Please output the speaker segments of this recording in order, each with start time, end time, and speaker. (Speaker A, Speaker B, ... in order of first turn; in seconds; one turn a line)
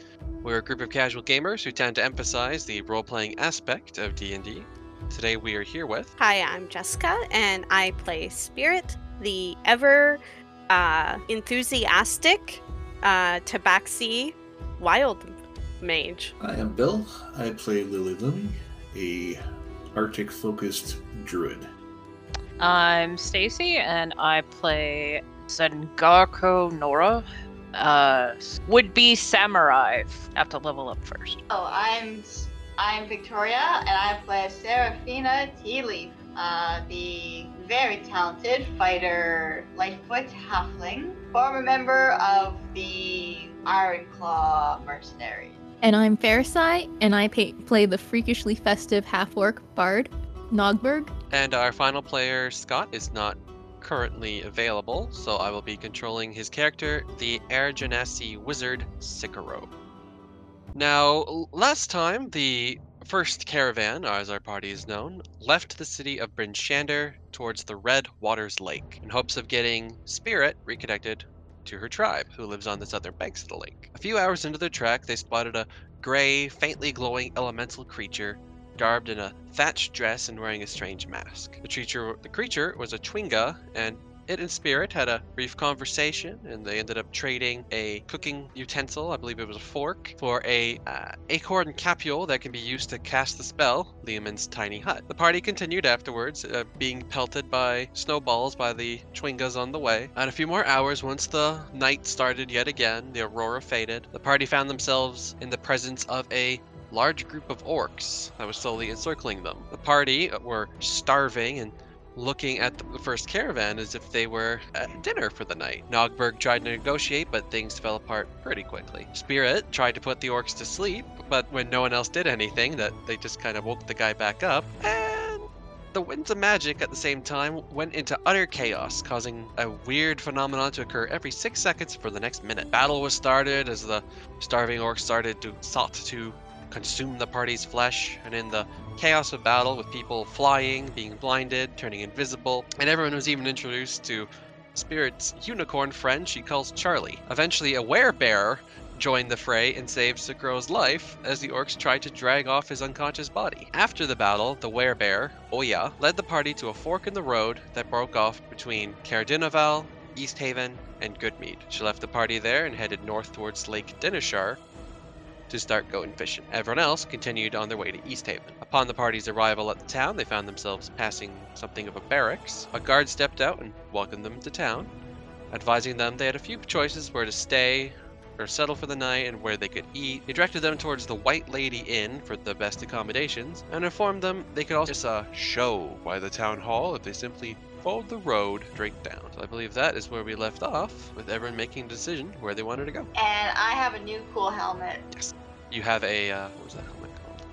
Speaker A: 0.4-6.1
Speaker B: 6.2-16.3
Speaker C: 16.4-19.4
Speaker C: 19.9-21.7
Speaker D: 22.6-31.4
Speaker E: 31.5-45.6
Speaker F: 45.8-51.1
Speaker A: 51.3-59.7
Speaker A: 60.7-164.6
Speaker A: 165.5-174.9
Speaker A: 175.5-193.1
Speaker E: 193.1-195.1
Speaker A: 195.1-197.4